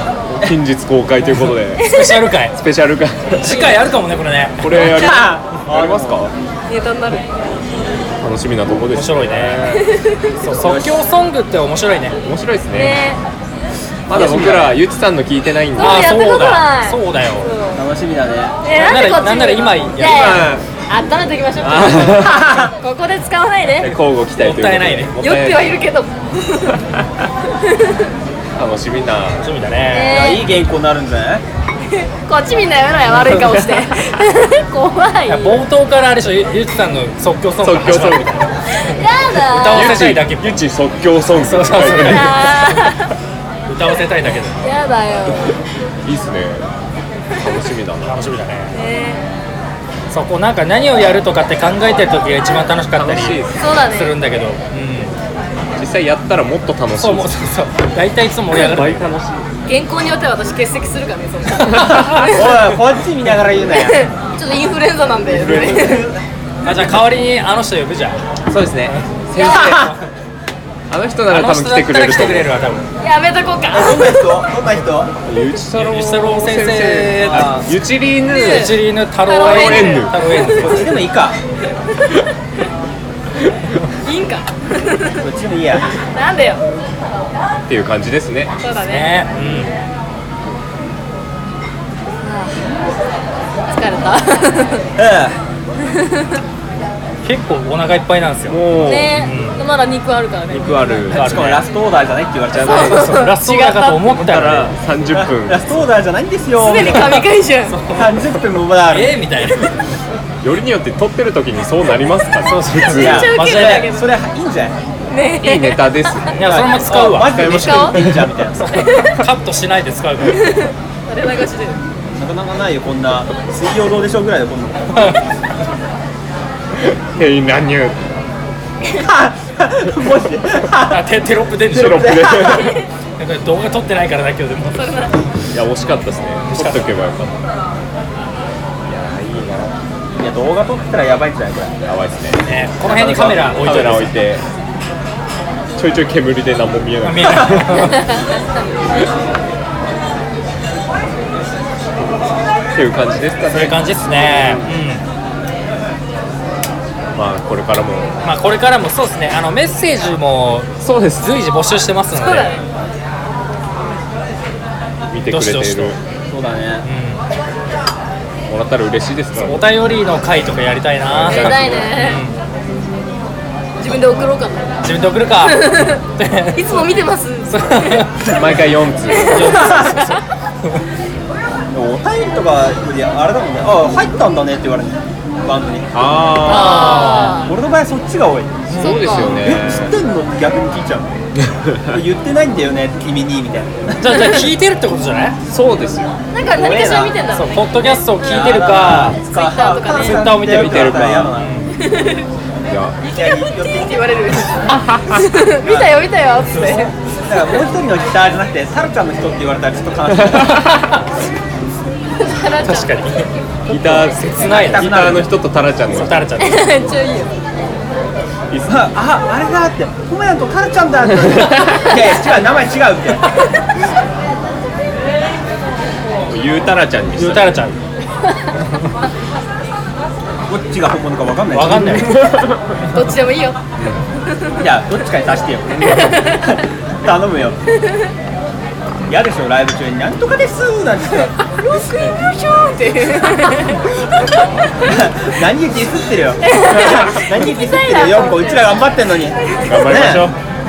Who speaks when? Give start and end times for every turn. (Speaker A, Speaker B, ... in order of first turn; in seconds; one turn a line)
Speaker A: 0.3-1.9
Speaker B: 1.8-2.2
Speaker C: 1.8-2.5
Speaker A: 2.5-3.8
Speaker C: 3.3-5.2
Speaker A: 4.6-6.3
Speaker D: 4.8-6.3
Speaker B: 6.7-7.2
Speaker A: 8.2-9.8
Speaker C: 8.9-9.7
Speaker B: 9.7-10.3
Speaker C: 10.4-12.2
Speaker D: 10.4-11.0
Speaker A: 12.2-13.0
Speaker B: 12.7-13.2
Speaker A: 14.1-16.1
Speaker D: 14.1-14.7
Speaker B: 15.8-17.8
Speaker C: 15.8-17.5
Speaker D: 17.7-18.6
Speaker B: 18.6-23.9
Speaker C: 18.8-20.4
Speaker A: 20.0-20.6
Speaker A: 21.6-22.5
Speaker A: 23.7-25.8
Speaker C: 24.3-25.2
Speaker B: 25.2-26.8
Speaker B: 27.6-28.1
Speaker A: 28.6-29.4
Speaker C: 29.4-30.3
Speaker B: 29.9-30.5
Speaker D: 30.1-31.4
Speaker B: 32.0-35.6
Speaker A: 33.1-33.8
Speaker C: 35.3-38.5
Speaker A: 37.6-38.3
Speaker B: 38.7-40.0
Speaker C: 39.5-40.6
Speaker A: 39.6-42.4
Speaker C: 41.4-42.5
Speaker B: 42.0-43.1
Speaker C: 43.7-44.6
Speaker B: 44.6-45.5
Speaker A: 46.0-46.7
Speaker A: 47.4-48.1
Speaker C: 48.0-48.7
Speaker B: 48.7-49.3
Speaker C: 50.1-55.2
Speaker A: 52.9-53.6
Speaker B: 53.6-54.2
Speaker A: 55.8-57.3
Speaker C: 57.0-59.2
Speaker A: 58.5-59.5
Speaker B: 59.6-62.6
Speaker C: 61.7-62.1
Speaker D: 61.7-64.0
Speaker B: 63.7-66.1
Speaker A: 65.2-66.0
Speaker D: 65.6-66.2
Speaker C: 66.6-68.2
Speaker A: 68.5-69.9
Speaker C: 68.8-70.0
Speaker B: 69.4-69.8
Speaker A: 70.9-72.5
Speaker C: 71.3-72.8
Speaker B: 73.0-74.3
Speaker D: 73.7-75.1
Speaker A: 75.2-78.7
Speaker C: 75.8-77.7
Speaker D: 77.2-77.7
Speaker B: 78.3-80.8
Speaker C: 78.4-81.0
Speaker A: 79.4-80.2
Speaker D: 80.5-81.4
Speaker B: 84.0-85.2
Speaker D: 85.2-86.0
Speaker B: 86.1-86.6
Speaker A: 87.7-88.5
Speaker B: 88.6-89.1
Speaker C: 88.8-89.7
Speaker A: 89.3-89.7
Speaker B: 92.2-92.9
Speaker B: 93.7-94.8
Speaker D: 95.0-95.4
Speaker C: 97.2-99.6
Speaker A: 98.5-99.2
Speaker B: 98.8-101.0
Speaker A: 100.5-101.3
Speaker C: 101.1-101.6
Speaker D: 101.1-103.0
Speaker A: 102.5-103.1
Speaker B: 102.6-104.1
Speaker C: 102.8-104.7
Speaker A: 104.1-105.9
Speaker D: 105.1-107.3
Speaker B: 106.6-107.8
Speaker C: 107.7-108.1
Speaker D: 107.9-109.1
Speaker C: 108.8-109.8
Speaker A: 110.4-113.3
Speaker C: 112.4-113.8
Speaker B: 112.9-114.1
Speaker D: 113.0-114.8
Speaker B: 115.1-115.9
Speaker A: 115.4-116.4
Speaker C: 116.3-117.4
Speaker D: 116.4-118.7
Speaker A: 117.2-118.2
Speaker B: 117.5-118.0
Speaker C: 118.6-120.4
Speaker B: 118.7-119.2
Speaker B: 120.4-121.8
Speaker D: 122.1-125.2
Speaker C: 124.9-125.2
Speaker A: 126.7-128.1
Speaker D: 128.9-131.0
Speaker C: 130.8-132.6
Speaker D: 131.7-132.8
Speaker A: 131.7-132.8
Speaker C: 133.2-134.9
Speaker B: 134.7-135.2
Speaker A: 135.5-137.4
Speaker C: 136.5-136.8
Speaker A: 138.8-139.8
Speaker D: 140.2-141.8
Speaker A: 141.8-144.4
Speaker C: 142.4-144.1
Speaker D: 142.9-143.3
Speaker A: 145.8-147.9
Speaker C: 147.0-148.0
Speaker B: 147.9-148.7
Speaker A: 152.7-154.7
Speaker C: 153.5-155.0
Speaker A: 157.1-158.2
Speaker C: 158.2-162.6
Speaker A: 160.8-161.3
Speaker B: 162.1-162.7
Speaker A: 165.1-166.0
Speaker C: 165.2-166.0
Speaker D: 166.3-166.8
Speaker C: 166.8-167.2
Speaker A: 168.5-169.7
Speaker C: 169.3-172.3
Speaker A: 171.1-171.9
Speaker B: 171.2-172.2
Speaker B: 173.8-176.0
Speaker C: 174.8-176.9
Speaker B: 176.5-178.1
Speaker C: 177.5-178.1
Speaker A: 178.2-179.7
Speaker B: 179.1-180.2
Speaker C: 179.2-180.2
Speaker D: 181.7-191.1
Speaker A: 185.9-187.3
Speaker B: 186.4-187.5
Speaker C: 186.8-187.3
Speaker C: 188.7-189.1
Speaker B: 188.7-189.4
Speaker A: 188.8-189.9
Speaker A: 191.5-191.9
Speaker D: 191.9-194.3
Speaker C: 194.0-195.4
Speaker A: 195.5-196.2
Speaker B: 196.3-198.0
Speaker D: 196.5-197.2
Speaker C: 197.3-199.2
Speaker D: 198.2-201.5
Speaker B: 199.2-200.3
Speaker C: 200.0-201.7
Speaker A: 200.3-201.3
Speaker B: 201.8-202.2
Speaker A: 202.7-203.0
Speaker B: 203.0-206.9
Speaker D: 203.0-204.8
Speaker A: 204.7-205.1
Speaker D: 205.6-206.0
Speaker C: 206.6-206.9
Speaker D: 207.2-210.8
Speaker C: 210.6-210.9
Speaker B: 212.2-213.2
Speaker C: 212.6-214.9
Speaker A: 213.7-216.2
Speaker D: 214.3-215.3
Speaker C: 215.9-216.7
Speaker B: 216.4-217.3
Speaker A: 218.5-218.8
Speaker D: 218.7-223.3
Speaker A: 226.3-227.5
Speaker C: 227.2-227.8
Speaker D: 230.5-232.2
Speaker C: 231.5-232.1
Speaker A: 232.0-232.6
Speaker B: 232.9-233.6
Speaker A: 233.8-234.0
Speaker D: 234.6-237.6
Speaker B: 235.8-236.4
Speaker D: 239.1-241.3
Speaker B: 241.5-243.9
Speaker D: 244.8-250.3
Speaker B: 246.4-249.9
Speaker A: 249.6-250.4